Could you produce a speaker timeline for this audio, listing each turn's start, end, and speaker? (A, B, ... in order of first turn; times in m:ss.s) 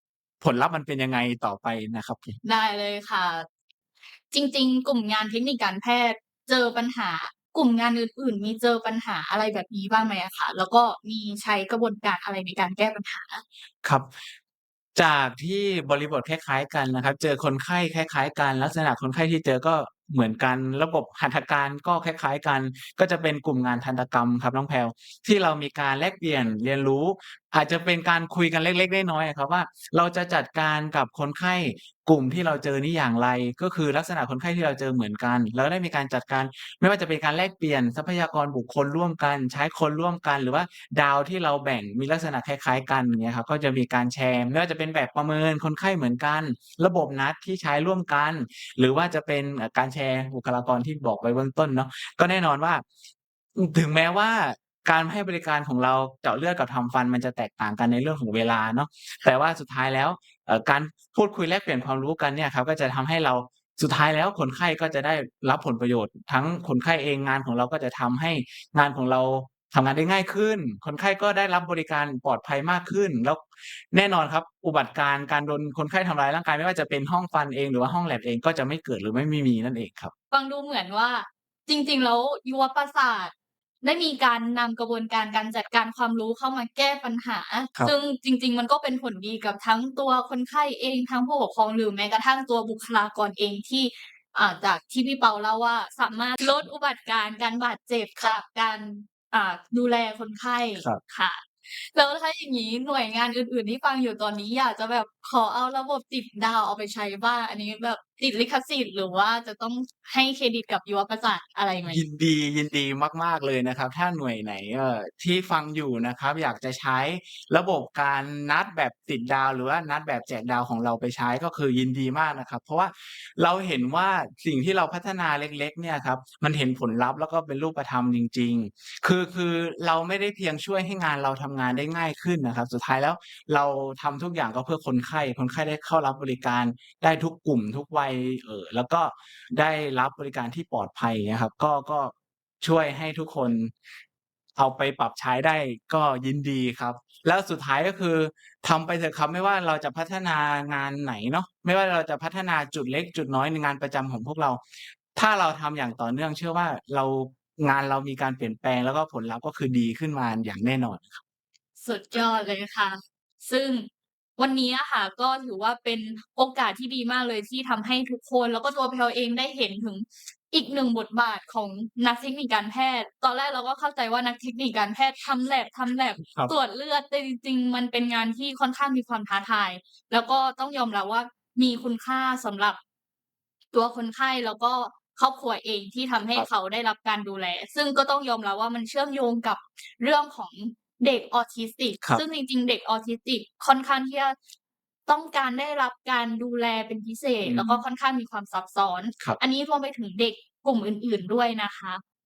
0:00.4-0:02.4 A
0:02.4-0:03.4 B
0:04.3-0:13.4 B
0:13.8-0:14.1 A
0:14.9-0:52.8 A
0:53.6-1:20.1 A
1:20.3-1:52.0 B
1:51.8-2:23.7 A
2:24.6-2:34.6 A
2:35.1-2:41.2 A
2:41.8-3:02.8 B
2:56.2-2:56.5 A
3:03.7-3:14.3 B
3:15.1-3:22.0 B
3:17.4-3:17.8 A